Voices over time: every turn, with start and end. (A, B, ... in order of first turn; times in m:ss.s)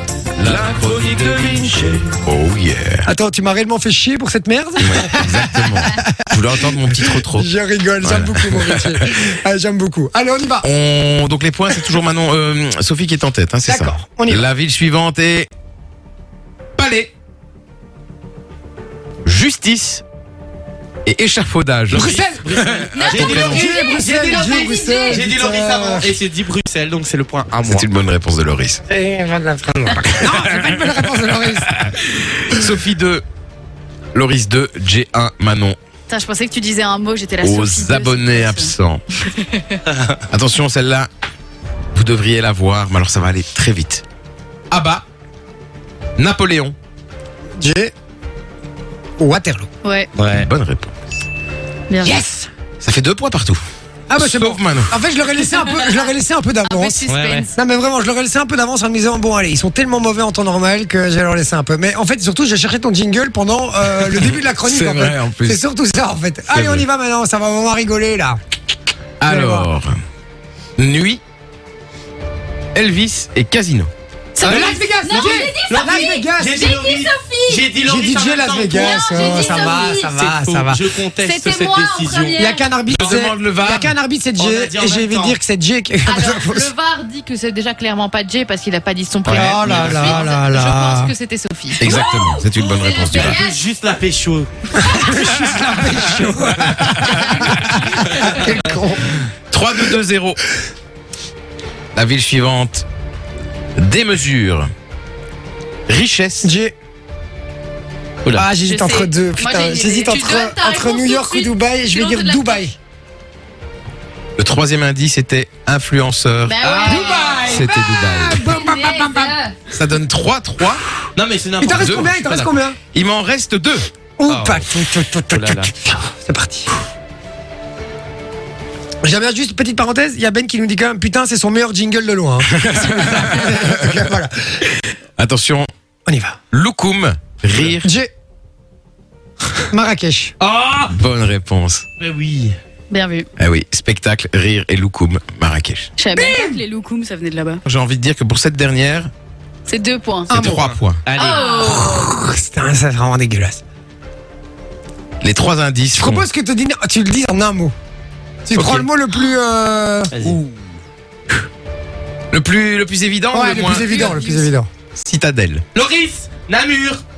0:00.4-0:03.1 A
0:01.2-0:01.8 B
0:03.1-0:06.3 B
0:04.8-0:07.5 A
0:06.9-0:10.7 B
0:08.0-0:09.1 A
0:10.6-0:15.5 A
0:13.7-0:14.5 B
0:16.8-0:17.1 A
0:19.2-0:20.0 A
0:21.0-0:23.5 A
0:21.9-0:27.9 C
0:21.9-0:22.4 B
0:22.9-0:25.2 D
0:23.2-0:26.1 B
0:27.6-0:28.8 A
0:29.0-0:32.5 B
0:29.9-0:30.9 A
0:31.8-0:33.2 A
0:34.1-0:35.8 A
0:36.1-0:38.7 D
0:37.4-0:39.0 A
0:39.3-0:39.8 D
0:39.9-0:40.2 C
0:40.3-0:41.1 A
0:41.9-0:44.0 A
0:44.7-0:45.0 A
0:46.2-0:46.8 A
0:47.6-0:47.9 B
0:49.2-0:49.7 B
0:49.8-0:50.1 D
0:50.2-0:50.5 C
0:50.3-0:51.2 A
0:51.9-0:52.2 D
0:52.0-0:52.5 B
0:52.8-0:53.6 A
0:54.1-1:08.4 B
0:54.2-0:55.0 A
0:56.7-0:57.5 E
0:57.1-0:57.5 C
1:04.0-1:05.6 A
1:06.5-1:06.9 A
1:09.2-1:09.9 A
1:09.2-1:09.7 B
1:10.8-1:11.2 A
1:12.7-1:13.9 A
1:14.4-1:17.6 D
1:14.4-1:16.7 B
1:14.4-1:22.4 C
1:17.8-1:20.8 B
1:18.7-1:20.0 D
1:21.2-1:22.6 D
1:22.4-1:26.7 B
1:22.9-1:24.0 A
1:24.4-1:25.4 C
1:26.0-1:31.8 E
1:29.3-1:29.8 A
1:29.3-1:31.1 B
1:29.4-1:30.2 C
1:31.8-1:33.4 A
1:31.8-1:33.6 D
1:32.5-1:34.5 C
1:34.7-1:39.2 B
1:34.8-1:35.1 D
1:35.1-1:38.3 A
1:39.5-1:40.4 A
1:42.0-1:42.9 A
1:43.8-1:44.7 A
1:45.9-1:46.5 A
1:46.4-1:46.8 B
1:48.3-1:52.8 B
1:48.6-1:52.6 D
1:50.1-1:50.4 E
1:54.4-1:58.5 A
1:56.4-1:57.7 D
1:56.8-1:59.4 B
1:58.4-1:59.6 D
1:59.7-2:00.8 A
2:01.2-2:02.6 C
2:01.6-2:02.8 B
2:01.7-2:02.1 A
2:02.9-2:03.9 A
2:04.2-2:06.7 B
2:04.3-2:04.7 C
2:05.3-2:05.7 C
2:09.0-2:14.6 B
2:12.5-2:14.1 A
2:15.2-2:15.7 A
2:16.1-2:16.4 B
2:16.5-2:17.9 A
2:17.8-2:18.1 B
2:19.7-2:20.3 B
2:20.4-2:21.0 C
2:20.9-2:21.8 A
2:22.0-2:22.6 C
2:22.9-2:23.3 D
2:23.4-2:25.9 A
2:26.0-2:27.6 D
2:26.2-2:26.6 B
2:27.7-2:29.1 A
2:29.7-2:30.3 D
2:30.3-2:30.7 B
2:30.3-2:31.0 A
2:30.3-2:31.7 C
2:31.2-2:32.1 D
2:31.4-2:33.6 B
2:35.2-2:36.3 A
2:35.9-2:37.7 B
2:38.4-2:40.3 B
2:40.1-2:40.6 C
2:42.3-2:44.2 A
2:43.3-2:44.7 B
2:44.1-2:44.5 D
2:45.0-2:45.6 A
2:45.7-2:47.0 C